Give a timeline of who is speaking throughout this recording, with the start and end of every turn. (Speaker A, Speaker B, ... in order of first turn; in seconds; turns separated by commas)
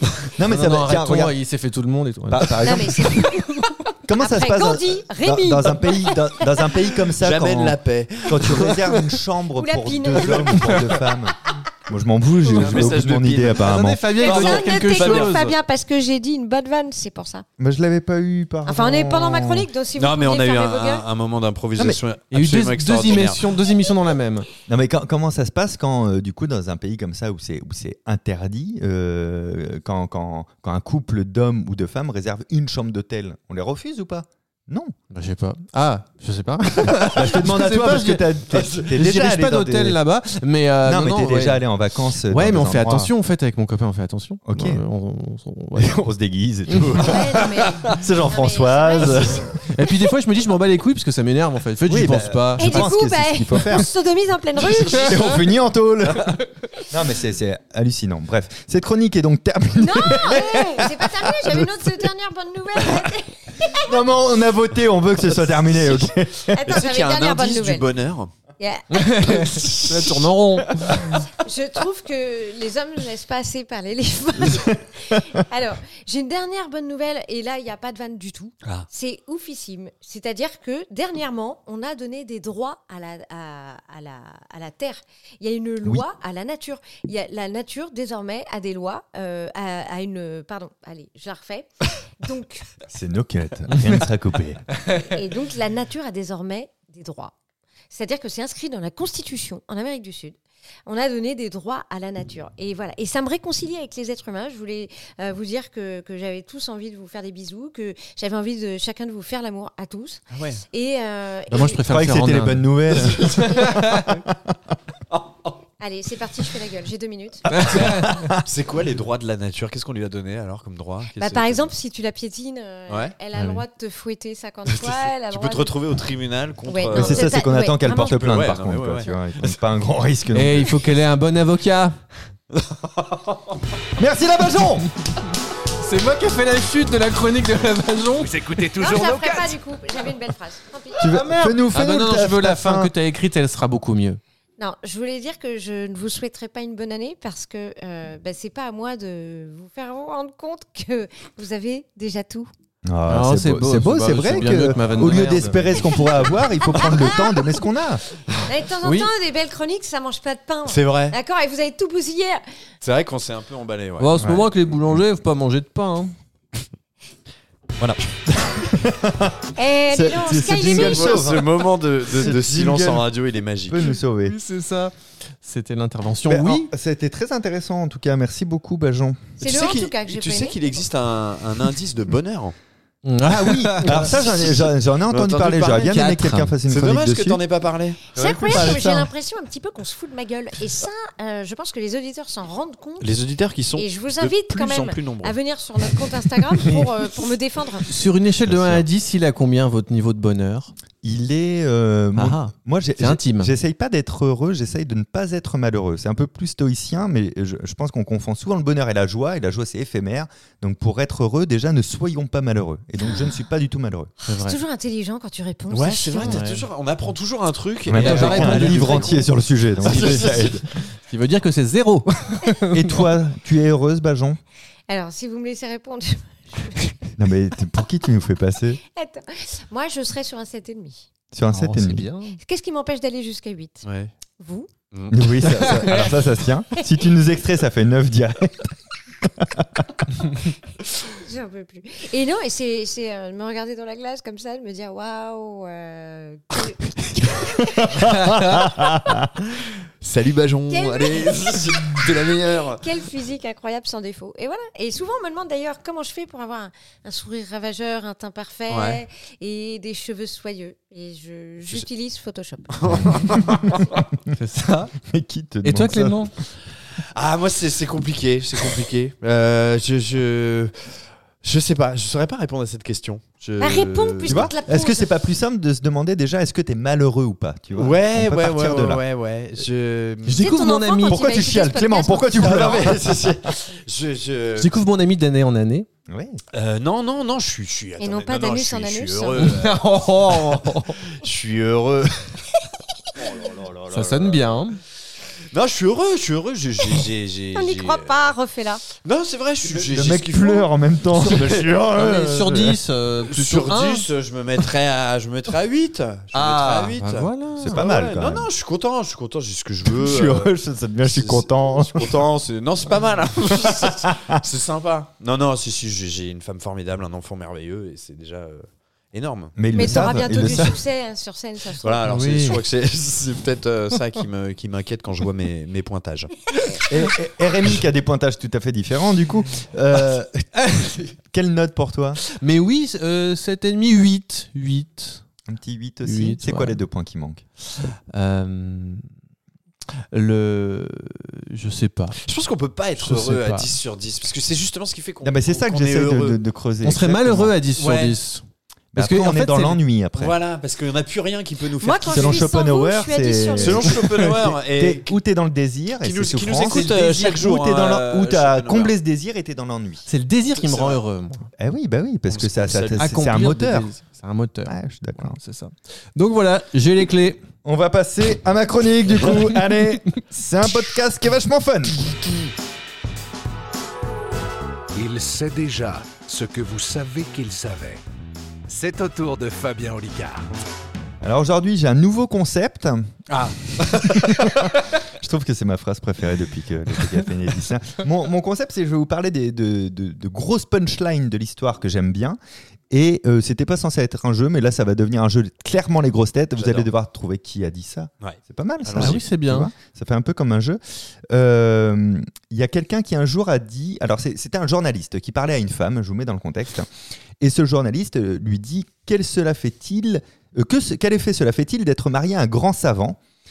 Speaker A: 0.3-1.3, Speaker B: 0.4-2.8, Speaker A: 2.3-3.2, Speaker C: 2.6-6.7, Speaker A: 4.0-14.0, Speaker D: 7.2-9.1, Speaker C: 9.6-10.9, Speaker D: 12.5-15.5, Speaker B: 12.6-15.5, Speaker C: 14.2-17.4, Speaker A: 17.6-19.7, Speaker C: 18.6-21.1, Speaker D: 19.9-23.4, Speaker B: 22.3-24.5, Speaker A: 24.7-34.9, Speaker B: 35.1-41.6, Speaker A: 36.9-40.0, Speaker A: 40.8-43.1, Speaker B: 42.2-46.0, Speaker A: 44.5-44.8, Speaker A: 45.7-49.5, Speaker B: 46.7-47.0, Speaker C: 47.0-49.9, Speaker B: 49.7-52.9, Speaker A: 51.9-53.9, Speaker C: 52.6-55.3, Speaker A: 54.8-62.0, Speaker B: 54.9-55.2, Speaker C: 59.8-64.0, Speaker A: 63.6-66.7, Speaker C: 66.5-67.9, Speaker D: 66.6-68.3, Speaker C: 68.6-69.7, Speaker B: 68.9-71.1, Speaker D: 69.5-70.0, Speaker A: 70.7-71.2, Speaker C: 71.2-92.7, Speaker A: 92.8-94.6, Speaker C: 94.9-97.3, Speaker C: 97.9-111.8, Speaker D: 110.3-110.6, Speaker B: 111.5-114.1, Speaker A: 111.8-114.5, Speaker D: 113.0-113.5, Speaker C: 113.5-113.8, Speaker D: 115.1-115.5, Speaker C: 115.8-117.7, Speaker B: 117.5-118.1, Speaker A: 117.6-118.4, Speaker D: 117.7-121.7, Speaker C: 121.2-125.7, Speaker D: 122.9-123.1, Speaker B: 123.3-123.6, Speaker D: 124.7-129.6, Speaker C: 126.7-128.5, Speaker A: 126.9-130.8, Speaker B: 130.3-132.0, Speaker D: 132.5-133.3, Speaker A: 134.0-134.9, Speaker B: 135.8-138.3, Speaker E: 138.2-139.6, Speaker C: 138.8-141.1, Speaker A: 141.0-142.9, Speaker B: 141.0-144.2, Speaker C: 144.6-152.5, Speaker A: 152.8-158.0, Speaker B: 153.1-156.2, Speaker C: 156.6-157.4, Speaker C: 158.4-162.4, Speaker B: 158.8-159.1, Speaker D: 160.7-161.2, Speaker D: 162.8-164.2, Speaker B: 164.0-166.1, Speaker A: 164.2-164.5, Speaker A: 168.3-173.1, Speaker C: 169.5-171.2, Speaker D: 170.7-173.8, Speaker A: 173.7-174.4, Speaker B: 174.2-176.7, Speaker A: 176.3-179.3, Speaker D: 179.4-182.6, Speaker C: 179.4-180.6, Speaker B: 183.0-184.1, Speaker A: 183.2-187.4, Speaker D: 183.9-188.0, Speaker B: 185.8-186.5, Speaker A: 188.1-189.1, Speaker C: 188.1-193.1, Speaker D: 193.0-195.4, Speaker C: 193.8-197.9, Speaker B: 197.8-200.7, Speaker A: 198.4-198.8, Speaker A: 201.0-214.1, Speaker B: 202.2-203.5, Speaker C: 214.2-216.5, Speaker B: 214.3-214.6, Speaker D: 215.7-220.6, Speaker B: 216.2-216.7, Speaker A: 217.8-220.6, Speaker B: 217.9-219.2, Speaker B: 219.8-220.5, Speaker B: 221.1-223.0, Speaker A: 222.7-224.4, Speaker C: 224.9-227.1, Speaker A: 227.2-228.8, Speaker C: 228.9-231.1, Speaker A: 231.3-232.1, Speaker B: 231.5-232.4, Speaker C: 232.4-233.9, Speaker D: 233.8-234.1, Speaker C: 234.4-234.7, Speaker D: 234.9-235.8, Speaker A: 235.1-240.1, Speaker B: 235.5-236.1, Speaker C: 241.0-248.1, Speaker A: 247.6-249.3, Speaker B: 248.2-248.5, Speaker D: 250.0-252.8, Speaker C: 250.7-252.0, Speaker C: 252.7-263.2, Speaker D: 258.7-259.0, Speaker D: 262.7-263.8, Speaker A: 263.0-263.7, Speaker B: 264.3-264.9, Speaker A: 265.0-266.3, Speaker B: 265.6-266.3, Speaker D: 267.0-274.5, Speaker C: 273.6-275.1, Speaker A: 274.2-279.0, Speaker D: 277.7-280.4, Speaker B: 280.2-281.3, Speaker C: 280.4-282.8, Speaker A: 281.1-283.5, Speaker D: 282.3-284.8, Speaker B: 284.6-285.9, Speaker A: 286.1-286.4, Speaker D: 286.5-292.4, Speaker C: 288.0-289.5, Speaker B: 289.4-291.0, Speaker D: 293.2-294.4, Speaker B: 293.9-294.8, Speaker D: 295.5-298.3, Speaker C: 297.5-298.8, Speaker D: 299.0-301.7, Speaker A: 299.6-302.8, Speaker B: 301.9-304.1, Speaker D: 303.2-310.5, Speaker B: 306.3-307.9, Speaker A: 307.6-308.5, Speaker A: 309.8-312.2, Speaker D: 311.0-319.6, Speaker A: 313.6-314.4, Speaker A: 319.6-320.8, Speaker C: 319.7-322.0, Speaker D: 321.8-326.8, Speaker B: 322.1-322.6, Speaker A: 326.9-330.6, Speaker B: 330.7-331.0, Speaker A: 331.2-332.2, Speaker B: 332.3-335.2, Speaker A: 335.5-337.4, Speaker B: 336.0-336.8, Speaker B: 337.7-339.0, Speaker B: 340.1-342.2, Speaker D: 342.2-346.4, Speaker B: 343.0-343.7, Speaker A: 345.2-347.6, Speaker B: 346.8-348.4, Speaker D: 347.7-348.2, Speaker A: 348.9-350.4, Speaker B: 348.9-349.8, Speaker D: 350.1-352.5, Speaker C: 351.8-353.9, Speaker A: 352.0-360.1, Speaker D: 353.6-355.1, Speaker D: 356.0-358.9, Speaker B: 356.6-357.0, Speaker B: 360.1-361.5, Speaker D: 360.6-361.0, Speaker A: 361.6-363.9, Speaker D: 362.3-363.0, Speaker B: 363.0-367.4, Speaker A: 364.6-365.4, Speaker A: 367.6-372.1, Speaker E: 374.9-378.0, Speaker E: 378.7-380.4, Speaker A: 381.2-383.2, Speaker D: 383.3-384.7, Speaker A: 383.8-392.4, Speaker A: 392.9-406.9, Speaker D: 396.6-396.9, Speaker D: 398.2-399.2, Speaker B: 398.9-399.7, Speaker A: 407.4-413.2